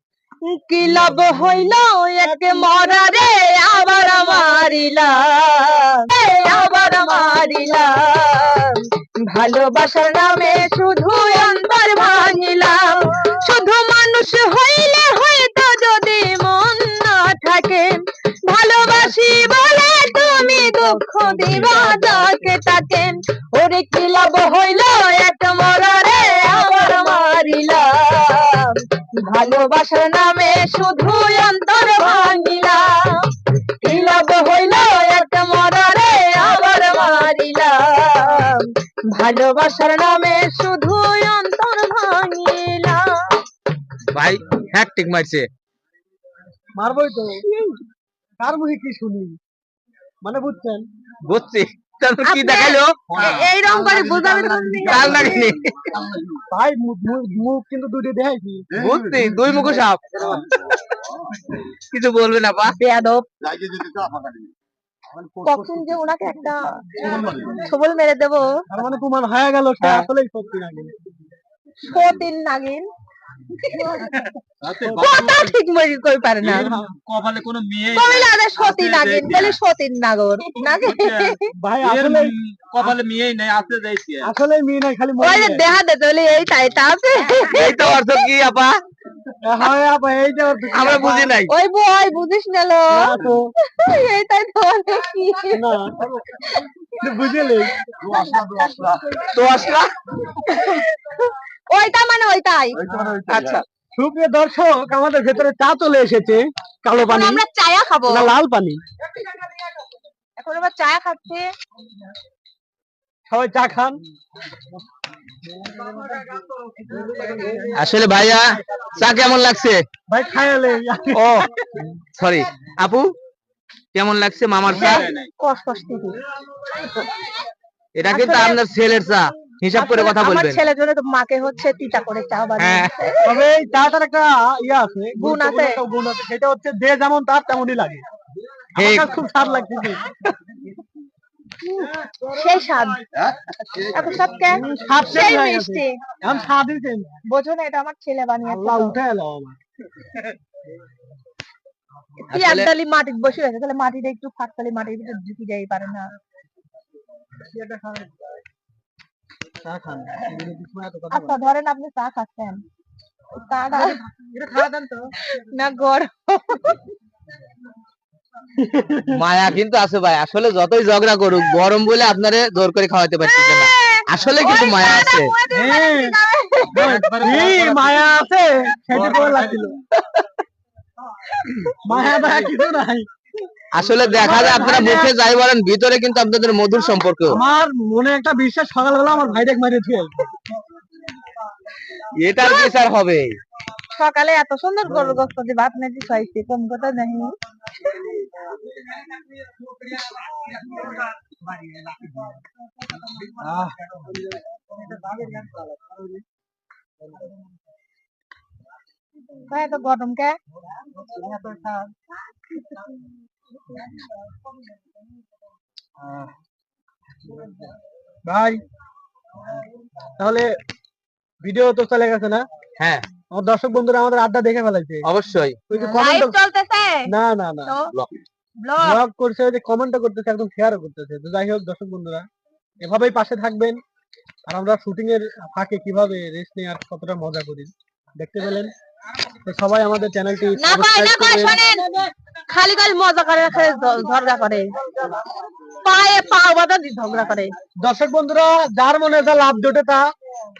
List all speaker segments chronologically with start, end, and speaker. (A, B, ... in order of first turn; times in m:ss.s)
0:00.4-0:17.9 A
0:18.4-0:33.3 A
0:33.8-0:43.4 A
0:44.1-0:45.5 B
0:46.7-0:47.4 C
0:47.4-0:47.8 A
0:48.4-0:49.4 C
0:50.2-0:50.8 C
0:51.3-0:53.4 B
0:52.2-0:55.5 A
0:54.8-0:55.9 B
0:56.5-0:58.6 C
0:58.8-1:00.8 B
1:01.5-1:02.8 B
1:02.8-1:03.2 A
1:03.7-1:04.3 D
1:05.2-1:05.6 C
1:05.4-1:08.5 A
1:07.0-1:07.5 C
1:08.7-1:10.9 C
1:11.8-1:12.9 A
1:13.6-1:14.0 A
1:14.6-1:15.5 D
1:14.8-1:15.1 C
1:14.9-1:16.7 A
1:16.4-1:19.6 D
1:17.9-1:21.5 A
1:20.6-1:24.2 D
1:21.6-1:23.0 C
1:22.8-1:24.1 B
1:24.2-1:25.6 C
1:25.2-1:28.2 A
1:27.4-1:28.8 B
1:29.4-1:31.3 C
1:30.7-1:31.5 B
1:31.5-1:35.7 A
1:32.9-1:33.5 C
1:35.5-1:36.1 C
1:36.3-1:36.7 A
1:37.0-1:37.8 C
1:37.9-1:39.5 A
1:39.3-1:39.9 B
1:40.3-1:42.9 A
1:42.9-1:43.2 C
1:43.2-1:43.6 B
1:43.9-1:47.4 C
1:47.0-1:48.3 A
1:48.1-1:48.8 C
1:50.4-1:51.5 A
1:53.3-1:54.0 C
1:57.7-1:59.8 B
2:00.1-2:01.8 C
2:01.2-2:01.5 B
2:02.2-2:03.1 B
2:03.9-2:05.1 B
2:04.7-2:05.3 D
2:04.7-2:06.2 A
2:07.9-2:10.6 B
2:08.1-2:08.6 A
2:09.7-2:13.4 A
2:12.6-2:12.9 B
2:13.2-2:18.0 C
2:15.2-2:15.8 A
2:18.8-2:19.1 B
2:18.8-2:20.1 C
2:21.6-2:23.0 A
2:23.8-2:26.0 A
2:24.5-2:27.1 C
2:27.3-2:29.0 A
2:28.4-2:29.6 C
2:32.3-2:32.7 B
2:32.3-2:36.1 A
2:37.6-2:38.1 C
2:39.6-2:41.4 C
2:41.1-2:42.6 A
2:43.4-2:44.0 A
2:44.2-2:45.0 C
2:45.2-2:46.8 A
2:48.6-2:49.1 C
2:49.1-2:55.3 B
2:53.2-2:57.3 A
2:55.5-2:56.2 C
2:56.7-2:59.8 C
2:56.7-2:58.0 D
2:58.9-2:59.7 D
3:01.8-3:03.0 C
3:03.7-3:07.4 B
3:04.1-3:05.1 C
3:04.6-3:04.9 A
3:07.3-3:10.2 C
3:12.2-3:13.3 B
3:12.4-3:12.7 A
3:13.9-3:18.1 A
3:23.3-3:24.0 C
3:25.2-3:25.5 C
3:29.5-3:30.4 A
3:38.2-3:38.6 C
3:40.2-3:40.5 C
3:41.4-3:42.4 C
3:42.8-3:43.0 B
3:43.3-3:45.0 C
3:45.0-3:45.6 B
3:45.7-3:46.4 C
3:45.7-3:47.1 A
3:47.1-3:47.7 C
3:47.6-3:47.9 A
3:48.6-3:49.0 A
3:48.8-3:52.2 C
3:52.8-3:53.8 C
3:54.5-3:58.7 C
3:59.4-4:01.6 C
4:00.6-4:01.8 A
4:02.5-4:04.6 A
4:05.8-4:07.5 A
4:07.8-4:10.0 C